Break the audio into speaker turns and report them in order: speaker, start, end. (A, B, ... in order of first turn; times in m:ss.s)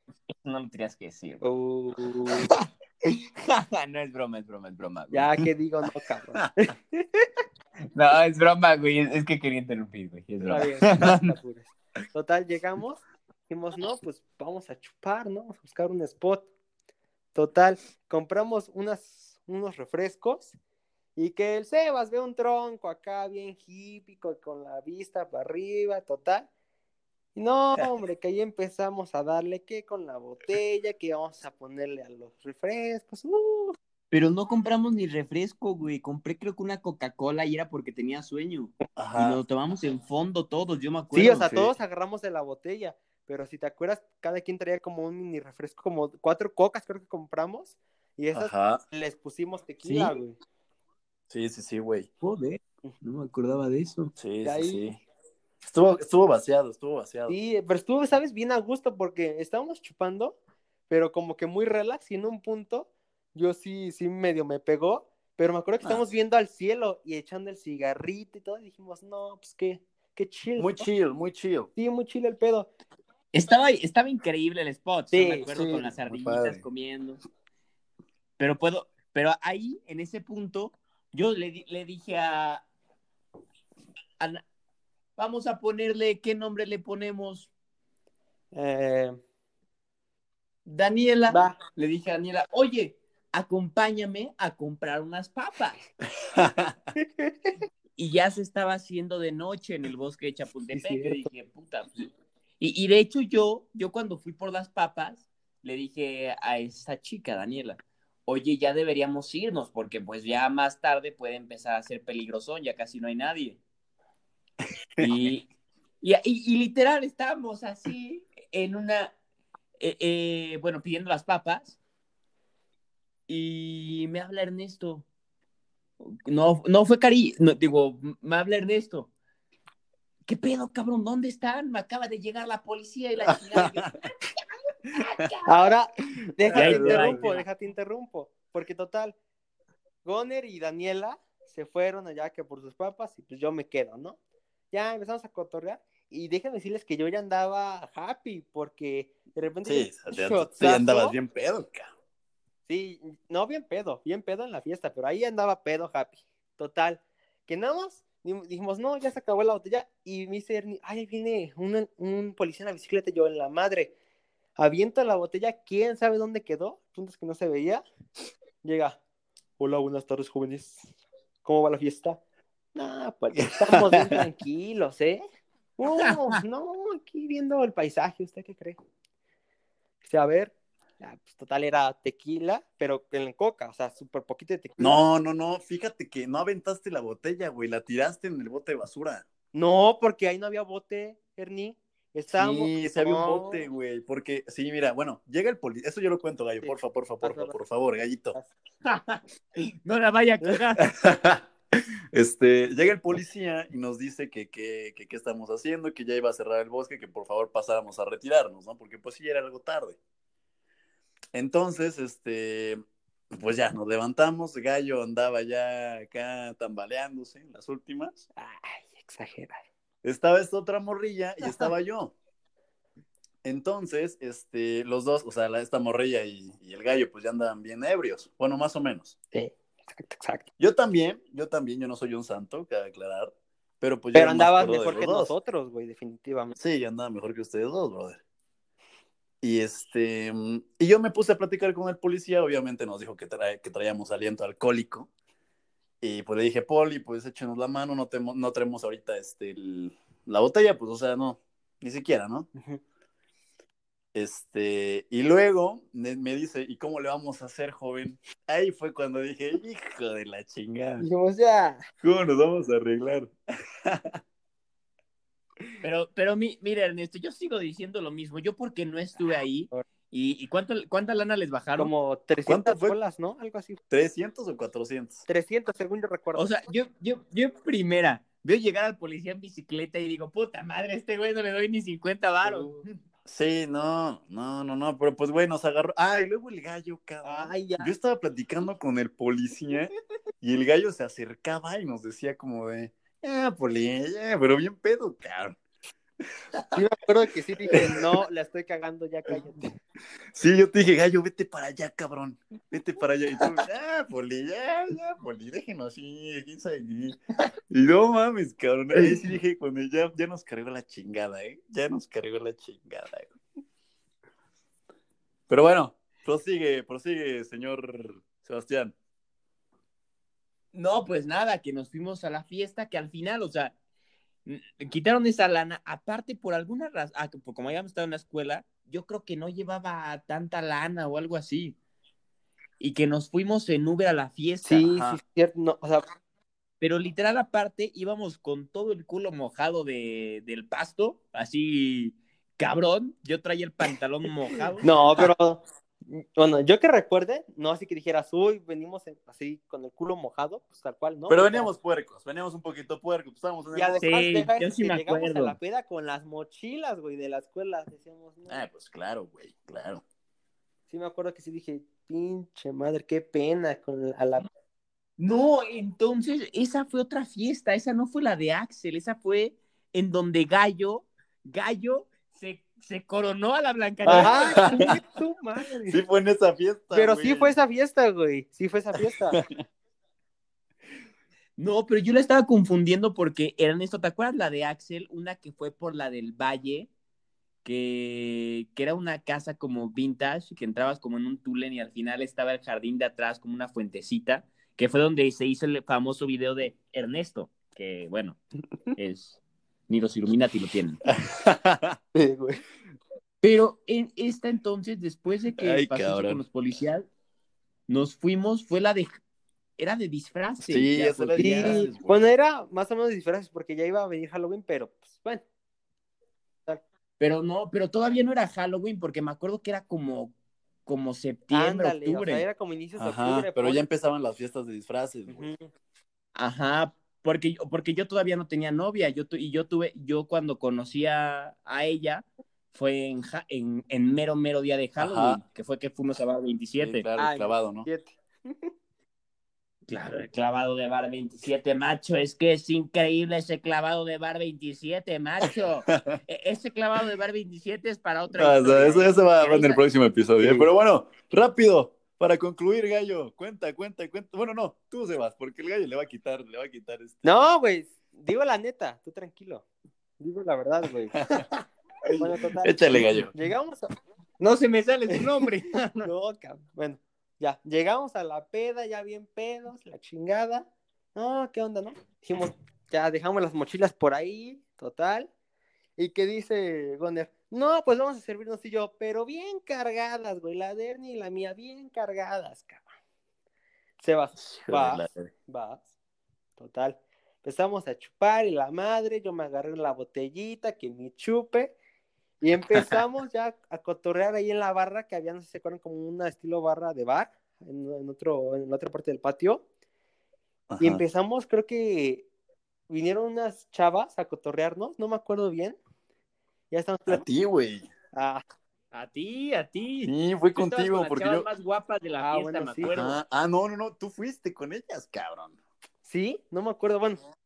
0:00.3-0:01.4 A
0:01.4-0:02.5 B
0:02.4-0:05.3 A
0:05.1-0:07.2 B
0:08.0-0:11.3 A
0:10.5-0:16.5 B
0:17.3-0:20.6 B
0:21.2-0:26.5 B
0:27.4-0:33.8 B
0:34.1-0:41.5 A
0:39.0-0:39.4 C
0:41.1-0:50.4 B
0:41.4-0:41.7 C
0:48.3-0:48.8 C
0:49.8-0:50.1 A
0:51.3-0:52.1 C
0:52.2-0:54.1 A
0:54.2-0:55.0 C
0:54.4-0:54.9 B
0:55.6-0:57.4 C
0:57.3-1:10.9 B
1:10.6-1:11.7 C
1:11.8-1:12.7 B
1:13.3-1:17.2 A
1:15.1-1:15.5 B
1:15.5-1:16.6 C
1:18.4-1:22.6 A
1:25.2-1:27.5 A
1:28.5-1:29.2 B
1:30.7-1:35.8 A
1:31.3-1:31.6 B
1:36.3-1:36.8 C
1:37.2-1:37.6 B
1:38.0-1:53.6 A
1:40.7-1:41.3 B
1:55.0-1:55.5 A
1:56.0-1:59.1 A
1:59.8-2:01.8 A
2:03.3-2:05.1 A
2:06.0-2:09.1 A
2:10.3-2:13.9 A
2:13.3-2:14.0 C
2:14.9-2:15.5 A
2:15.5-2:19.2 B
2:16.5-2:17.4 C
2:16.5-2:17.4 A
2:20.0-2:24.2 B
2:24.7-2:31.2 B
2:29.6-2:31.9 C
2:32.7-2:43.9 B
2:44.6-2:47.8 B
2:48.6-2:49.0 B
2:49.6-2:50.9 B
2:51.4-2:52.2 B
2:52.8-2:55.2 B
2:53.4-2:54.2 C
2:55.8-2:58.8 B
3:00.0-3:05.0 B
3:04.8-3:09.2 C
3:09.5-3:13.7 B
3:12.3-3:18.4 C
3:16.6-3:17.6 B
3:18.8-3:19.2 A
3:19.8-3:20.9 A
3:20.8-3:21.5 C
3:22.1-3:30.0 C
3:31.3-3:32.8 C
3:33.3-3:38.2 C
3:38.4-3:39.6 B
3:40.0-3:42.1 C
3:41.4-3:41.7 B
3:43.4-3:49.2 C
3:49.3-3:50.5 B
3:50.6-3:55.3 C
3:54.2-3:56.6 B
3:56.6-3:58.2 C
3:59.4-4:05.1 C
4:06.0-4:12.5 C
4:14.1-4:21.0 C
4:21.0-4:21.8 B
4:22.0-4:24.2 C
4:25.8-4:31.9 A
4:31.8-4:33.8 B
4:32.5-4:33.0 C
4:33.9-4:35.2 C
4:35.3-4:36.5 B
4:36.4-4:42.7 A
4:42.4-4:42.9 B
4:43.2-4:55.6 C
4:47.2-4:47.9 B
4:56.7-4:59.7 B
4:57.7-4:58.1 C
5:00.3-5:13.4 C
5:15.5-5:19.0 C
5:20.7-5:23.8 A
5:24.5-5:31.8 A
5:32.8-5:34.9 A
5:34.6-5:36.0 B
5:34.8-5:35.2 C
5:36.8-5:44.9 A
5:44.8-5:51.7 B
5:51.3-5:54.1 C
5:53.7-5:58.6 B
5:54.0-5:55.6 A
5:58.5-6:00.0 C
6:00.9-6:04.4 B
6:05.2-6:14.8 A
6:14.1-6:16.0 B
6:14.1-6:15.0 C
6:15.9-6:17.6 C
6:16.9-6:19.4 B
6:21.6-6:26.9 A
6:27.6-6:38.4 A
6:39.0-6:41.0 A
6:41.0-6:42.0 C
6:42.1-6:42.6 B
6:43.4-6:47.1 A
6:45.6-6:46.4 C
6:47.9-6:49.1 A
6:49.8-6:51.8 A
6:50.6-6:52.2 C
6:51.4-6:55.4 B
6:57.2-7:00.3 A
7:00.9-7:02.5 A
7:01.5-7:03.8 B
7:03.0-7:05.5 C
7:05.3-7:05.7 B
7:06.4-7:17.1 A
7:15.0-7:15.4 C
7:16.8-7:17.9 C
7:17.2-7:18.7 B
7:19.9-7:29.8 A
7:28.3-7:37.2 C
7:30.4-7:30.7 B
7:37.2-7:39.6 B
7:40.2-7:41.3 B
7:42.2-7:43.9 B
7:42.6-7:43.3 C
7:44.4-7:46.1 A
7:46.0-7:55.3 B
7:56.0-8:02.9 B
8:04.0-8:05.8 B
8:04.4-8:05.3 C
8:06.6-8:11.8 B
8:12.4-8:19.6 B
8:12.6-8:13.0 C
8:20.7-8:21.0 C
8:20.8-8:22.3 B
8:22.9-8:25.8 B
8:26.7-8:27.2 B
8:27.1-8:27.9 C
8:28.1-8:28.4 B
8:28.9-8:33.2 A
8:30.0-8:31.5 C
8:32.2-8:32.9 B
8:32.9-8:35.6 C
8:36.0-8:37.2 B